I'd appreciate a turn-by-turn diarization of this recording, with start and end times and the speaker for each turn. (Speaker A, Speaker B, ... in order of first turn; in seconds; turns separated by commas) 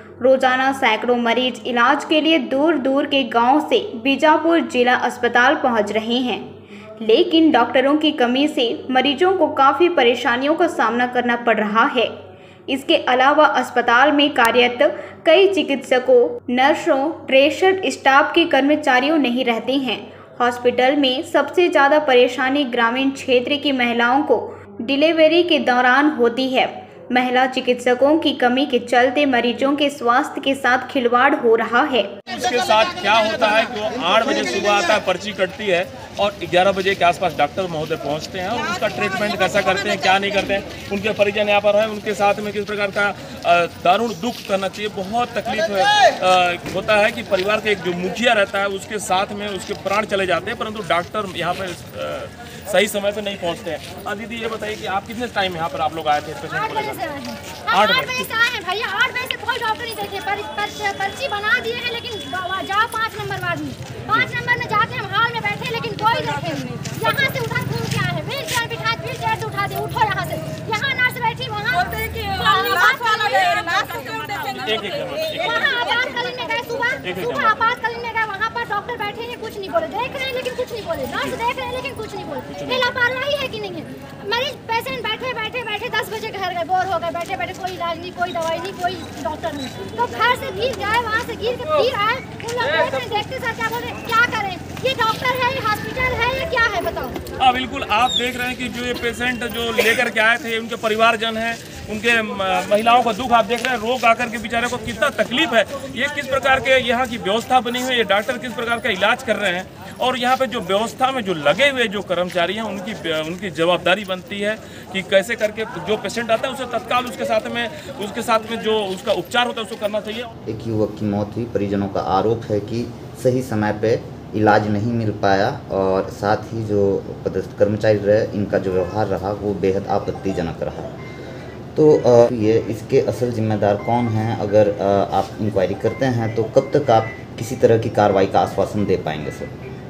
Speaker A: 0.2-6.5, Speaker A: 7.0-12.1, Speaker A: 12.7-32.1, Speaker B: 32.3-57.0, Speaker C: 56.5-74.5, Speaker B: 57.7-58.3, Speaker B: 74.7-75.8, Speaker C: 75.3-97.2, Speaker B: 77.0-77.5, Speaker B: 97.4-120.3, Speaker D: 120.5-130.9, Speaker D: 131.8-139.5